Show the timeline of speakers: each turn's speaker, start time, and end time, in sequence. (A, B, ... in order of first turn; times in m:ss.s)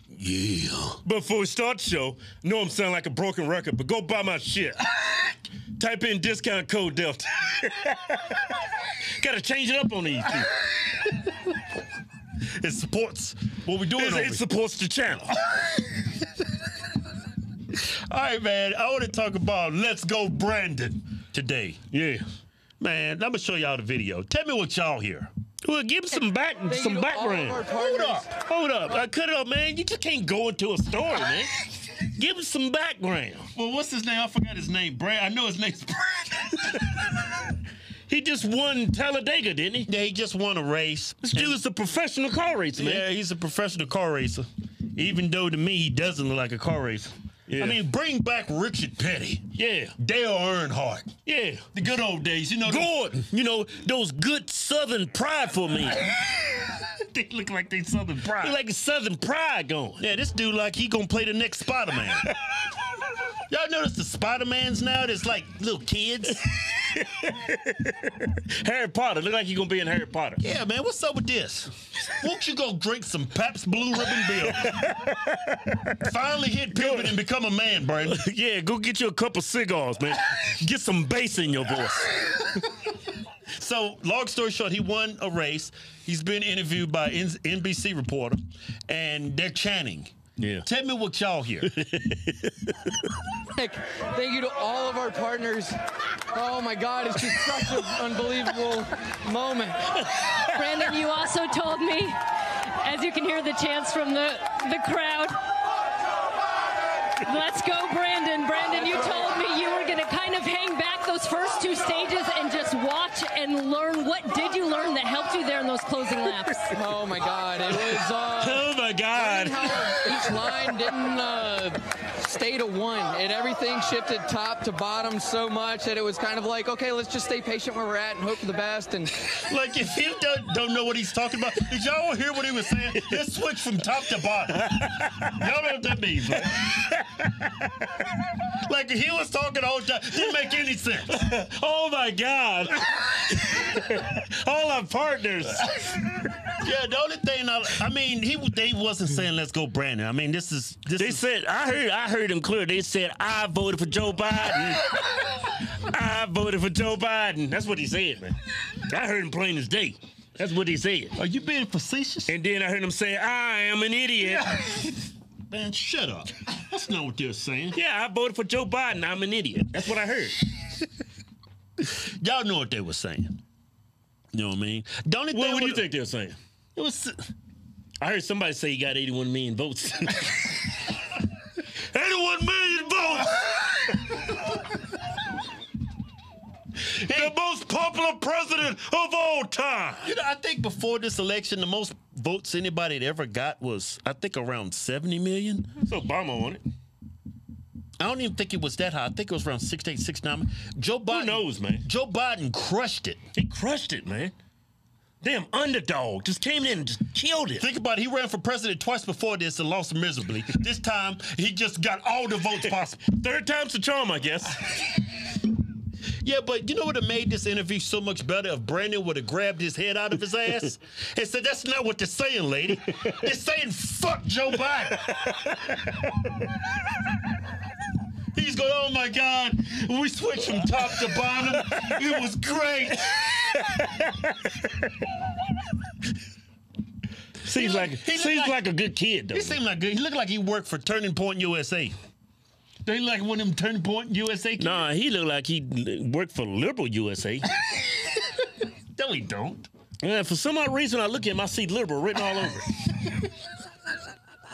0:00.1-0:01.0 A
0:01.0-0:08.4 B
0:09.2-0:10.5 B
0:12.6-0:14.4 A
0:14.0-0:15.4 B
0:17.7-0:21.8 A
0:21.9-0:22.2 B
0:22.8-0:25.3 A
0:25.6-0:27.7 B
0:26.7-0:28.3 C
0:27.7-0:28.4 A
0:28.3-0:33.5 B
0:33.5-0:36.8 A
0:38.1-0:39.9 B
0:39.8-0:41.6 A
0:41.2-0:43.0 B
0:42.8-0:49.4 A
0:47.5-0:47.8 B
0:49.5-0:49.9 B
0:50.0-0:51.1 A
0:51.2-0:51.7 B
0:51.7-0:52.9 A
0:52.6-0:56.1 B
0:56.7-0:58.6 A
0:58.2-1:00.0 B
1:00.0-1:02.2 A
1:03.5-1:06.4 A
1:06.7-1:10.4 B
1:10.4-1:14.7 A
1:14.5-1:16.0 B
1:16.0-1:18.2 A
1:16.8-1:17.2 B
1:18.1-1:22.1 B
1:23.6-1:31.7 A
1:30.4-1:30.6 B
1:31.7-1:32.7 B
1:33.5-1:35.8 C
1:36.3-1:40.0 C
1:40.5-1:42.2 D
1:42.8-1:45.4 D
1:47.2-1:56.7 D
1:56.7-2:09.1 C
1:57.7-2:00.1 B
2:09.3-2:16.7 A
2:14.7-2:15.3 B
2:16.4-2:17.4 B
2:18.6-2:21.1 A
2:21.1-2:25.9 B
2:26.6-2:31.2 A
2:31.0-2:35.0 B
2:35.5-2:41.2 B
2:41.1-2:42.3 A
2:42.3-2:44.6 B
2:44.4-2:44.8 A
2:45.5-2:47.8 A
2:47.7-2:50.4 B
2:52.0-2:53.4 A
2:54.3-2:55.9 A
2:55.3-2:56.4 B
2:56.7-2:57.2 A
2:58.0-3:00.7 B
3:01.9-3:03.4 B
3:06.8-3:10.1 B
3:07.0-3:07.3 A
3:10.0-3:15.7 A
3:15.8-3:16.6 B
3:18.0-3:23.2 A
3:21.1-3:21.8 B
3:23.3-3:24.3 B
3:25.2-3:27.6 B
3:27.6-3:33.1 A
3:33.0-3:34.9 B
3:36.2-3:45.0 A
3:48.3-3:53.3 A
3:57.4-3:59.6 B
3:57.5-3:58.6 A
3:59.3-4:01.9 A
4:02.8-4:04.8 A
4:04.6-4:07.5 B
4:08.9-4:09.7 A
4:10.0-4:13.1 B